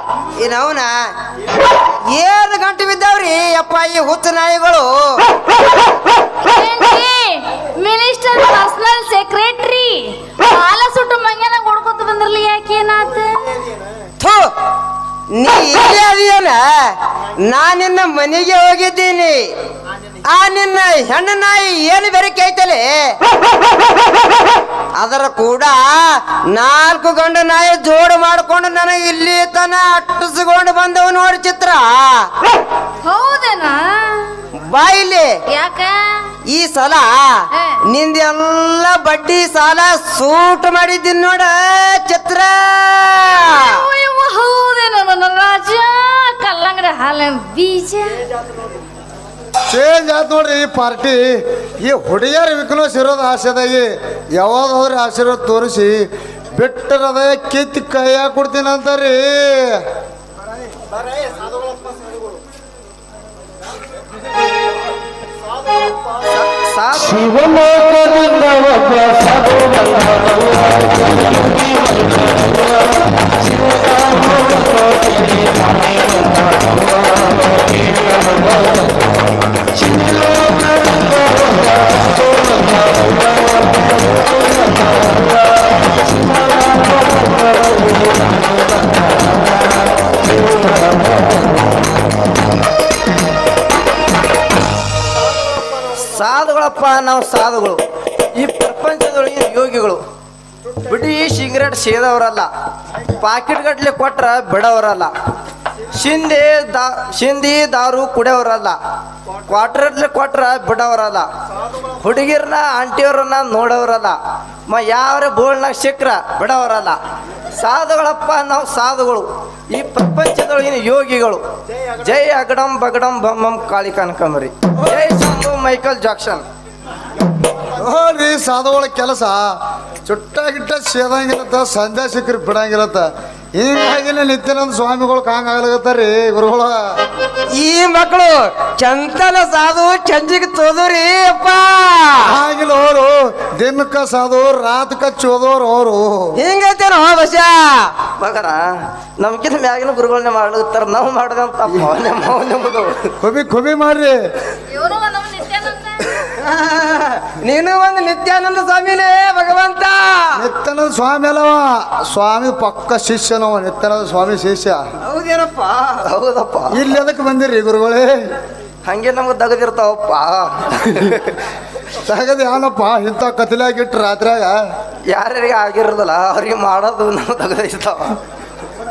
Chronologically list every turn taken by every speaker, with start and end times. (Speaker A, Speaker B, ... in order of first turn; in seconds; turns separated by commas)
Speaker A: 0.4-0.9, Speaker A: 2.1-5.2, Speaker B: 6.5-13.5, Speaker A: 14.2-14.5, Speaker A: 15.3-19.4, Speaker A: 20.2-23.2, Speaker A: 25.0-32.3, Speaker B: 33.0-34.5, Speaker A: 34.6-35.3, Speaker B: 35.5-36.3, Speaker A: 36.5-43.8, Speaker B: 37.5-37.8, Speaker B: 43.3-48.2, Speaker C: 49.7-56.0, Speaker C: 56.6-59.8, Speaker D: 66.3-67.7, Speaker D: 96.0-97.8, Speaker D: 98.4-100.0, Speaker D: 100.8-102.5, Speaker D: 103.2-105.1, Speaker D: 105.9-108.8, Speaker D: 109.5-111.3, Speaker D: 112.0-114.2, Speaker D: 114.7-117.0, Speaker D: 117.5-121.4, Speaker D: 122.0-126.4, Speaker C: 127.8-133.1, Speaker C: 133.6-136.8, Speaker A: 137.5-142.4, Speaker C: 142.2-146.3, Speaker A: 146.4-147.9, Speaker D: 148.2-148.6, Speaker D: 149.2-153.1, Speaker C: 153.2-154.2, Speaker B: 154.7-156.2, Speaker A: 156.4-160.5, Speaker C: 160.4-164.8, Speaker A: 165.0-166.0, Speaker D: 166.0-166.8, Speaker C: 166.7-168.2, Speaker D: 168.9-171.4, Speaker C: 172.1-174.6, Speaker D: 175.1-178.2